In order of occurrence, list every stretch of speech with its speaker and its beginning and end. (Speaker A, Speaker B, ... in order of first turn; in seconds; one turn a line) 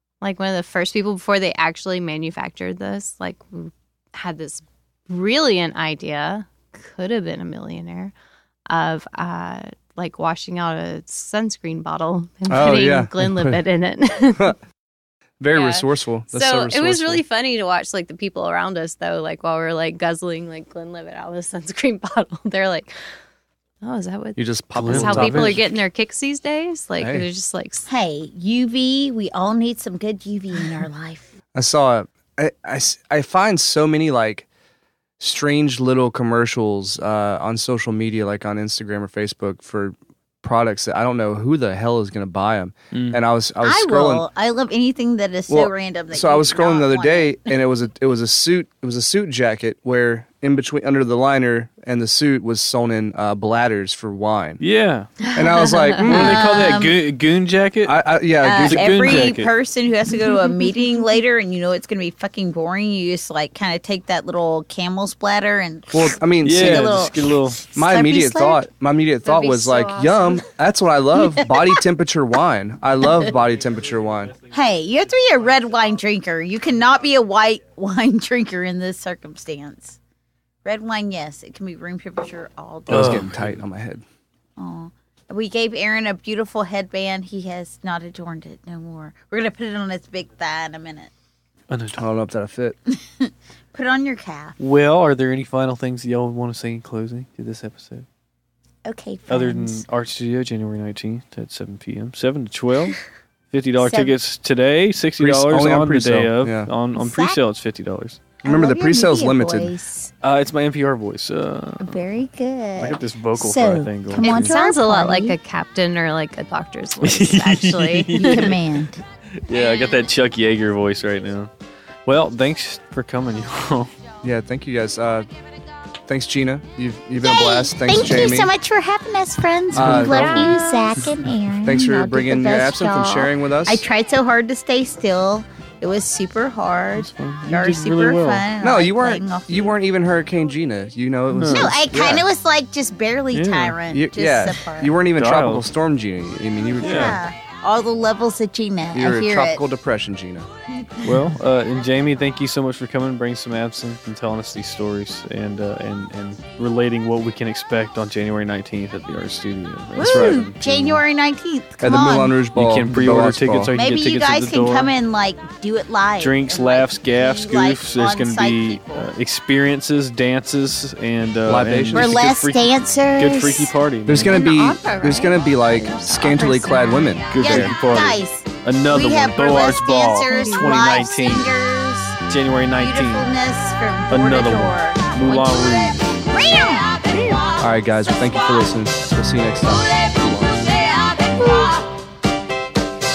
Speaker A: 0.2-8.1
Speaker A: 8.7-14.6
Speaker B: 12.5-13.6
Speaker B: 15.4-17.2
Speaker A: 15.5-23.1
Speaker A: 23.8-27.9
Speaker B: 24.4-25.8
Speaker C: 24.7-25.6
Speaker B: 27.0-27.2
Speaker D: 27.9-31.3
Speaker B: 31.5-34.5
Speaker B: 35.2-44.2
Speaker C: 42.9-43.2
Speaker D: 43.6-47.5
Speaker B: 45.5-54.6
Speaker C: 54.6-55.1
Speaker A: 55.2-56.0
Speaker B: 55.3-56.5
Speaker C: 56.0-59.5
Speaker D: 56.0-57.0
Speaker B: 57.8-59.2
Speaker D: 58.4-68.6
Speaker B: 65.9-67.1
Speaker C: 66.4-67.6
Speaker B: 67.7-74.3
Speaker A: 69.2-70.4
Speaker D: 74.5-80.0
Speaker D: 80.6-83.3
Speaker C: 82.9-83.5
Speaker B: 82.9-84.0
Speaker D: 84.6-91.1
Speaker C: 91.7-92.1
Speaker B: 91.9-92.8
Speaker D: 92.9-94.6
Speaker C: 94.6-98.0
Speaker D: 98.8-99.8
Speaker C: 99.3-108.4
Speaker D: 103.8-104.1
Speaker B: 105.2-106.7
Speaker D: 107.0-107.4
Speaker D: 108.4-110.1
Speaker B: 108.4-109.7
Speaker C: 110.2-112.0
Speaker D: 111.8-115.4
Speaker C: 112.8-114.5
Speaker A: 114.2-118.5
Speaker C: 117.0-118.6
Speaker D: 118.1-119.0
Speaker C: 119.5-121.5
Speaker A: 119.5-120.0
Speaker C: 122.0-123.9
Speaker B: 124.2-125.3
Speaker B: 126.0-128.5
Speaker D: 127.2-139.7
Speaker B: 129.7-130.6
Speaker A: 129.9-131.1
Speaker B: 131.6-133.8
Speaker C: 137.0-138.5
Speaker B: 138.6-142.2
Speaker C: 141.3-142.1
Speaker D: 141.5-145.0
Speaker C: 143.3-143.8
Speaker B: 143.9-147.2
Speaker C: 145.1-145.6
Speaker D: 146.7-149.6
Speaker C: 146.8-147.2
Speaker B: 148.9-150.5
Speaker C: 151.0-161.0
Speaker D: 159.9-162.4
Speaker B: 160.0-160.4
Speaker B: 161.8-163.7
Speaker C: 162.5-164.9
Speaker D: 163.7-169.1
Speaker C: 166.2-174.3
Speaker B: 171.4-172.2
Speaker D: 171.9-173.7
Speaker B: 174.1-177.7
Speaker A: 174.3-177.2
Speaker C: 177.3-181.5
Speaker D: 177.3-182.2
Speaker A: 180.3-180.8
Speaker C: 182.3-183.3
Speaker D: 182.7-187.4
Speaker C: 184.1-186.3
Speaker B: 187.6-190.7
Speaker D: 191.2-191.8